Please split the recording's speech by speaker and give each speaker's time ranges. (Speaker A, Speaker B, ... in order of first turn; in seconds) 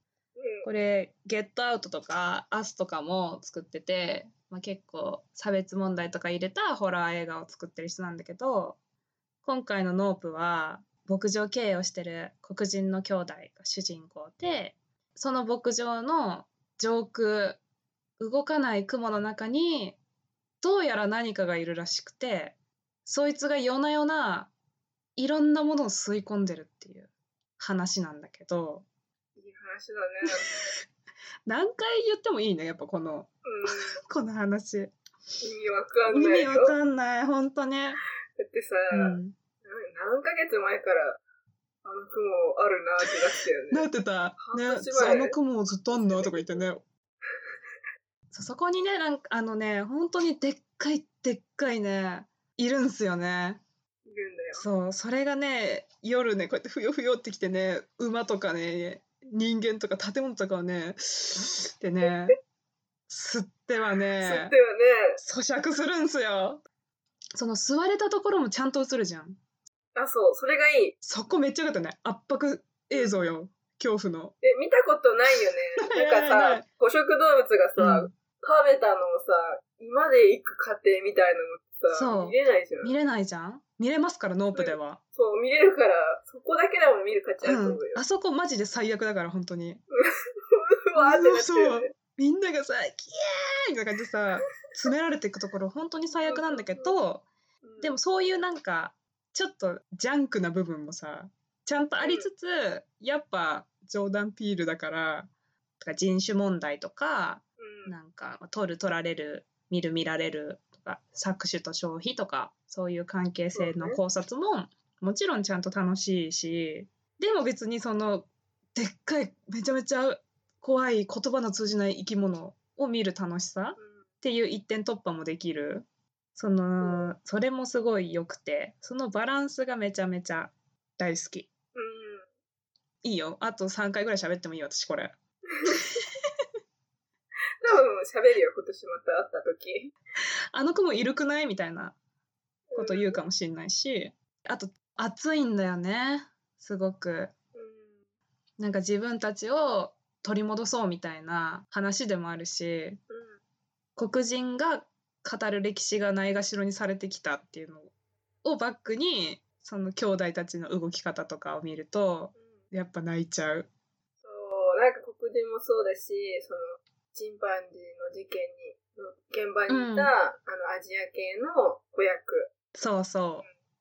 Speaker A: 0.4-0.7, 29.4-30.7, 33.4-34.0, 35.4-36.8, 38.4-41.2, 41.8-43.9, 44.4-45.4, 45.9-46.7, 54.0-54.6, 62.0-62.3, 64.2-65.2, 69.9-70.9, 72.9-73.2, 74.4-82.9, 84.5-88.0, 90.0-91.9, 96.2-97.0, 97.6-98.0, 102.0-102.3, 107.6-108.0, 113.5-114.0, 123.8-124.0, 126.8-127.1, 131.7-132.3, 135.5-136.0, 137.6-139.9, 142.7-143.2, 147.5-148.0, 153.1-153.4, 164.2-172.5
Speaker B: 0.6-8.8, 9.4-17.6, 18.2-20.0, 20.6-22.5, 23.1-24.5, 25.2-28.8, 31.4-34.9, 36.1-38.0, 38.9-39.3, 43.7-46.8, 48.3-53.6, 54.5-62.4, 63.1-64.5, 65.2-66.6, 67.3-69.4, 71.0-74.3, 75.9-76.6, 77.8-78.1, 81.9-85.0, 87.4-89.8, 91.0-97.3, 97.8-105.3, 105.8-131.5, 133.0-135.1, 140.5-141.9, 142.8-147.3, 148.6-153.0, 154.0-157.9, 158.4-163.7, 169.7-170.1, 172.7-173.4